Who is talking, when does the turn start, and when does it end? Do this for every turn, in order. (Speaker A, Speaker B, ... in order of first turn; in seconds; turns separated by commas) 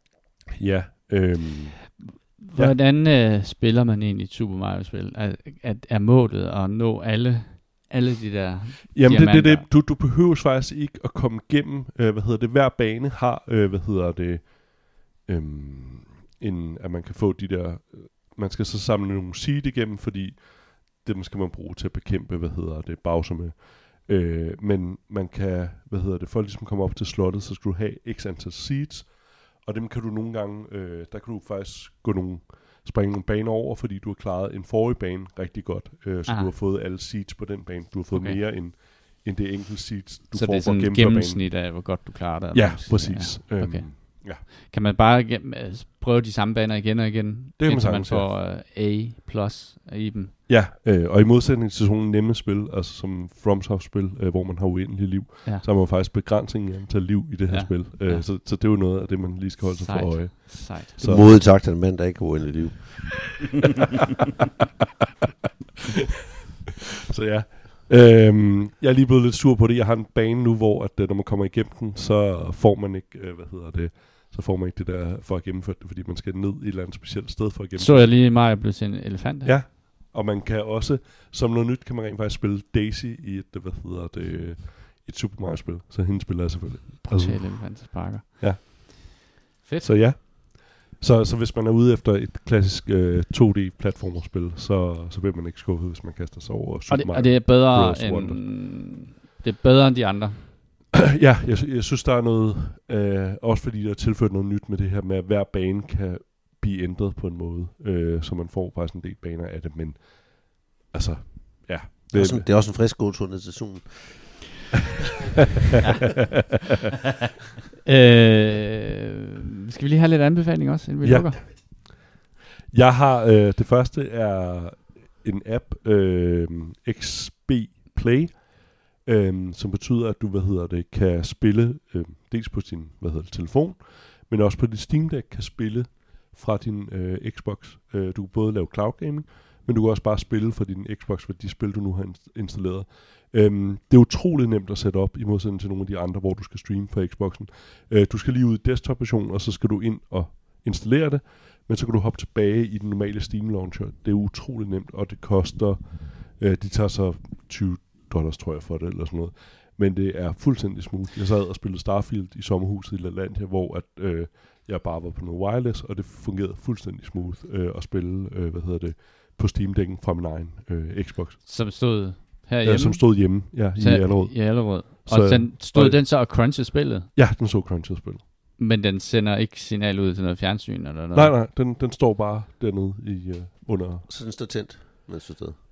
Speaker A: 0.6-2.7, Speaker B: 2.4-9.7, Speaker A: 8.9-41.6, Speaker B: 36.3-36.5, Speaker B: 38.1-38.4, Speaker B: 40.3-50.4, Speaker A: 42.5-44.4, Speaker A: 47.6-48.3, Speaker A: 50.5-61.4, Speaker B: 57.5-58.3, Speaker B: 59.7-61.0, Speaker C: 61.0-63.4, Speaker A: 67.1-78.2, Speaker B: 77.8-79.5, Speaker A: 79.4-89.3, Speaker B: 87.0-88.8, Speaker B: 89.6-89.9, Speaker A: 89.8-98.5, Speaker B: 96.9-100.5, Speaker A: 100.9-112.5, Speaker C: 112.1-114.4, Speaker B: 117.8-121.4, Speaker A: 121.0-122.0, Speaker A: 122.7-171.4, Speaker B: 171.4-177.1, Speaker A: 172.6-176.5, Speaker A: 177.1-178.2, Speaker B: 178.6-181.3, Speaker A: 181.1-184.1, Speaker C: 184.1-185.6